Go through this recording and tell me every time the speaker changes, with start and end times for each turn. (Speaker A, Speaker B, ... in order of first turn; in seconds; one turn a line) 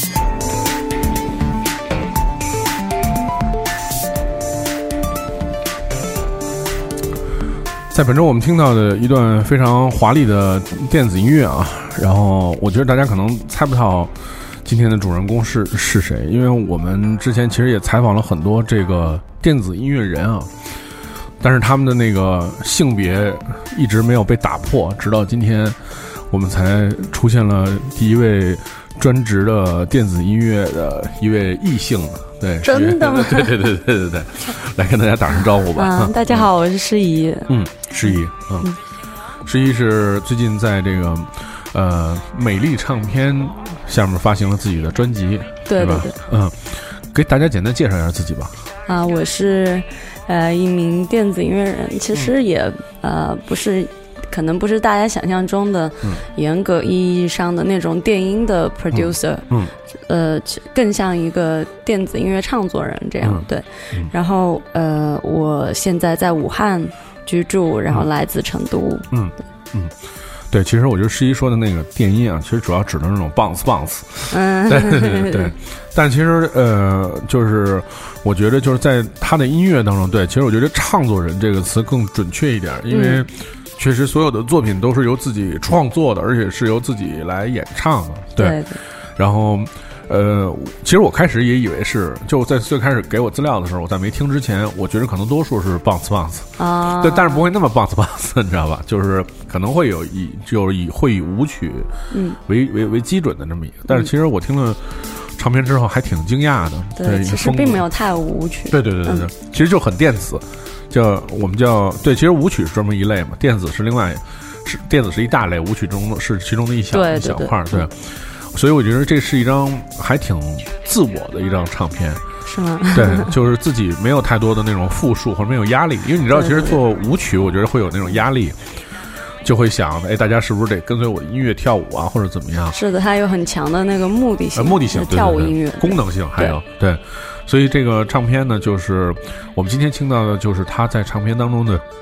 Speaker A: 7.9-20.7
Speaker A: 21.4-36.5
Speaker B: 32.6-33.5
Speaker B: 35.7-37.5
Speaker A: 37.5-38.7
Speaker B: 38.0-38.8
Speaker A: 39.4-48.5
Speaker B: 45.7-46.2
Speaker B: 48.9-59.5
Speaker A: 58.9-59.7
Speaker B: 60.1-69.1
Speaker A: 63.2-64.1
Speaker A: 69.1-101.9
Speaker B: 74.3-75.5
Speaker B: 82.9-83.2
Speaker B: 88.4-88.8
Speaker B: 96.6-97.4
Speaker B: 102.1-102.4
Speaker A: 102.5-107.9
Speaker B: 107.0-109.3
Speaker A: 108.7-122.2
Speaker B: 116.9-117.9
Speaker B: 122.5-123.3
Speaker A: 122.9-132.8
Speaker B: 126.3-126.8
Speaker B: 132.7-136.6
Speaker A: 134.5-141.8